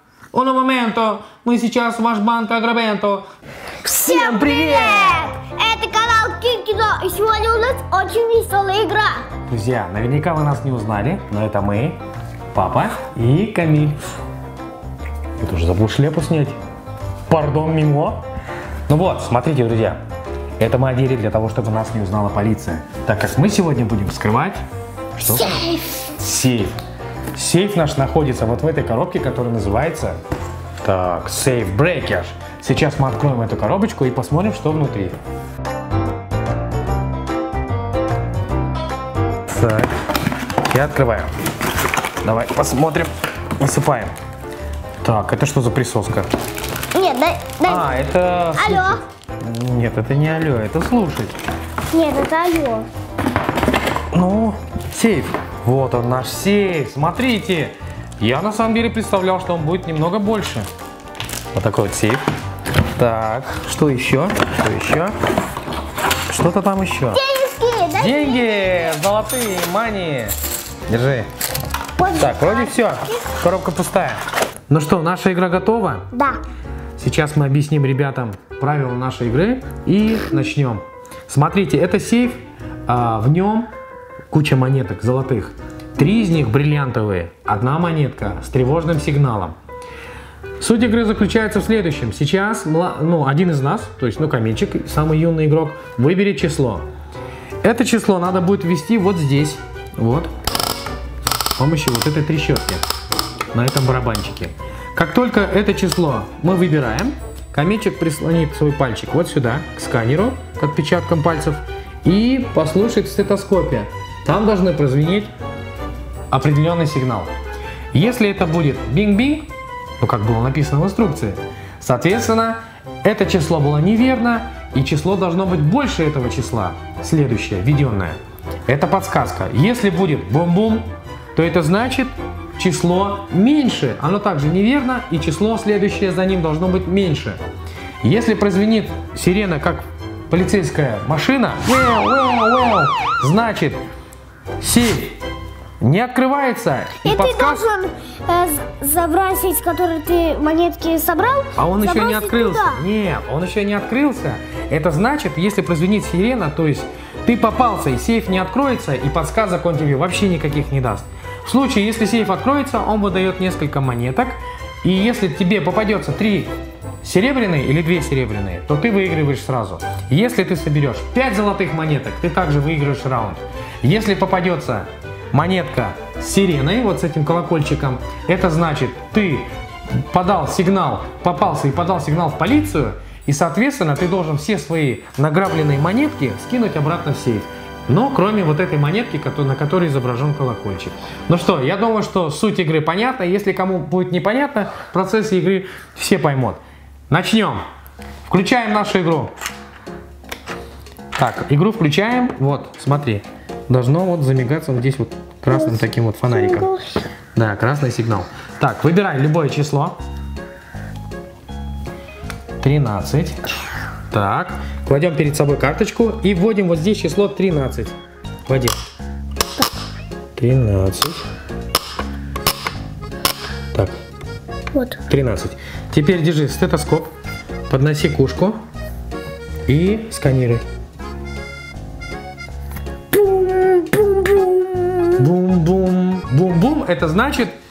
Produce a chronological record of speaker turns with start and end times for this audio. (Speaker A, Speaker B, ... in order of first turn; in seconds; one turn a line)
Speaker A: 0.3-3.2
Speaker B: 3.8-9.3
Speaker A: 4.0-5.3
Speaker A: 9.5-12.0
Speaker A: 12.5-14.0
Speaker A: 15.4-16.6
Speaker A: 17.3-18.2
Speaker A: 18.9-20.0
Speaker A: 20.6-24.6
Speaker A: 25.2-26.8
Speaker B: 25.3-26.0
Speaker A: 27.3-30.2
Speaker A: 30.8-35.1
Speaker A: 39.5-39.9
Speaker A: 40.7-41.3
Speaker A: 42.2-44.1
Speaker A: 45.0-46.3
Speaker B: 46.9-48.0
Speaker A: 47.6-51.3
Speaker B: 48.5-49.0
Speaker B: 51.9-52.9
Speaker A: 54.1-60.7
Speaker A: 61.5-62.2
Speaker A: 63.0-65.1
Speaker A: 66.3-67.2
Speaker B: 67.1-68.8
Speaker A: 68.0-70.3
Speaker A: 70.9-71.3
Speaker B: 72.0-72.7
Speaker A: 72.1-76.0
Speaker B: 76.1-76.4
Speaker A: 77.0-83.7
Speaker A: 84.3-89.5
Speaker A: 90.6-96.8
Speaker A: 97.6-100.3
Speaker A: 101.5-102.8
Speaker A: 103.5-115.3
Speaker A: 116.3-117.3
Speaker A: 117.9-137.4
Speaker A: 138.0-143.8
Speaker A: 144.6-145.2
Speaker A: 145.8-147.6
Speaker B: 147.0-152.8
Speaker A: 151.6-179.5
Speaker A: 180.1-197.6
Speaker A: 198.3-199.3
Speaker A: 201.1-206.7
Speaker B: 205.5-207.1
Speaker A: 207.3-210.0
Speaker A: 212.6-213.4
Speaker A: 214.1-217.9
Speaker A: 218.4-218.8
Speaker A: 220.3-221.2
Speaker B: 224.7-225.0
Speaker A: 225.1-227.1
Speaker A: 227.7-228.6
Speaker A: 229.7-230.6
Speaker B: 233.1-235.2
Speaker A: 235.2-237.6